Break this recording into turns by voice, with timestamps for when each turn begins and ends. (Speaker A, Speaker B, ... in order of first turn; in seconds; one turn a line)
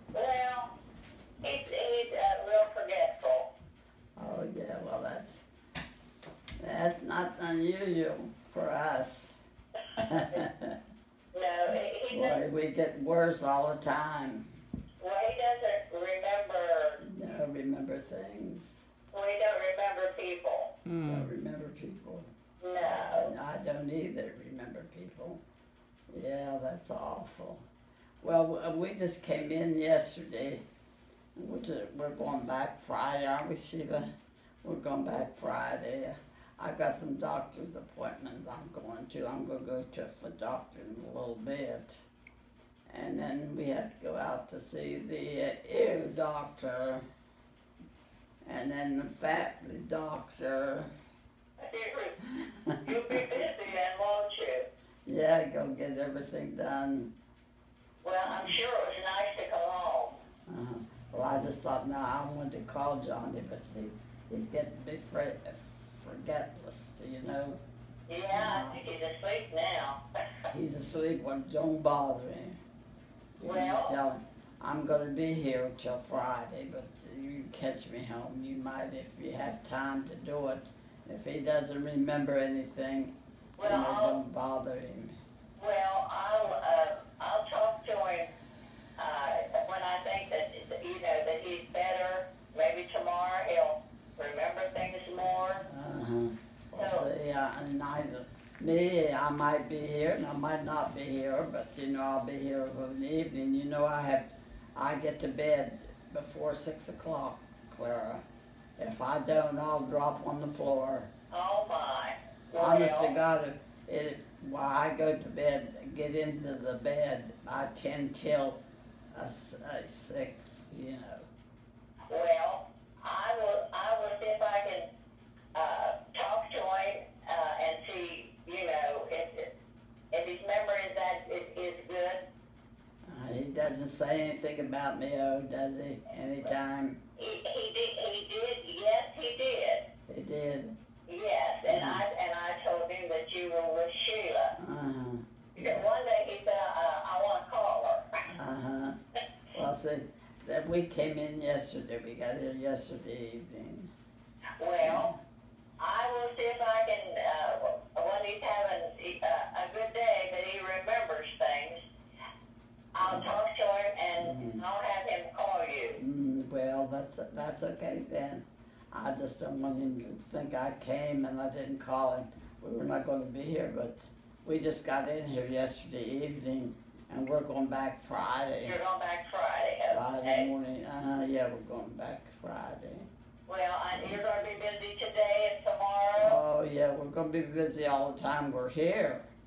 Speaker A: 0.1-0.7
Speaker A: 1.4-3.5
Speaker B: 4.2-5.4
Speaker B: 6.6-9.3
Speaker B: 10.0-10.8
Speaker A: 11.3-12.4
Speaker B: 12.1-14.4
Speaker A: 15.0-17.0
Speaker B: 17.0-18.8
Speaker A: 19.1-20.7
Speaker B: 20.9-22.3
Speaker A: 22.6-23.3
Speaker B: 22.8-25.4
Speaker B: 26.1-27.6
Speaker B: 28.2-30.6
Speaker B: 31.4-34.1
Speaker B: 34.6-42.0
Speaker B: 42.9-47.0
Speaker B: 48.5-50.9
Speaker A: 51.6-52.2
Speaker B: 52.3-52.8
Speaker A: 52.8-54.7
Speaker B: 55.1-57.1
Speaker A: 58.0-60.2
Speaker B: 58.3-58.5
Speaker B: 60.5-67.6
Speaker A: 68.1-70.0
Speaker B: 68.3-68.8
Speaker B: 70.5-72.6
Speaker B: 73.4-85.2
Speaker A: 73.4-73.9
Speaker A: 83.6-84.2
Speaker A: 85.6-88.3
Speaker A: 89.0-95.6
Speaker B: 95.7-108.2
Speaker A: 96.8-97.1
Speaker B: 108.8-111.1
Speaker A: 111.3-113.2
Speaker B: 112.6-118.6
Speaker B: 119.1-121.3
Speaker A: 122.1-124.9
Speaker A: 125.5-129.5
Speaker A: 130.1-132.2
Speaker B: 133.1-137.0
Speaker A: 137.2-139.9
Speaker B: 140.1-140.7
Speaker A: 141.1-144.5
Speaker B: 141.7-142.0
Speaker B: 144.6-145.9
Speaker A: 145.6-148.1
Speaker B: 148.3-149.0
Speaker B: 149.5-153.9
Speaker A: 154.6-155.1
Speaker B: 154.8-155.2
Speaker A: 155.8-161.8
Speaker A: 162.9-166.0
Speaker B: 163.0-163.3
Speaker B: 164.2-164.6
Speaker B: 166.0-178.8
Speaker A: 178.7-180.5
Speaker B: 179.8-183.1
Speaker A: 183.5-186.4
Speaker B: 183.9-184.2
Speaker B: 186.2-189.2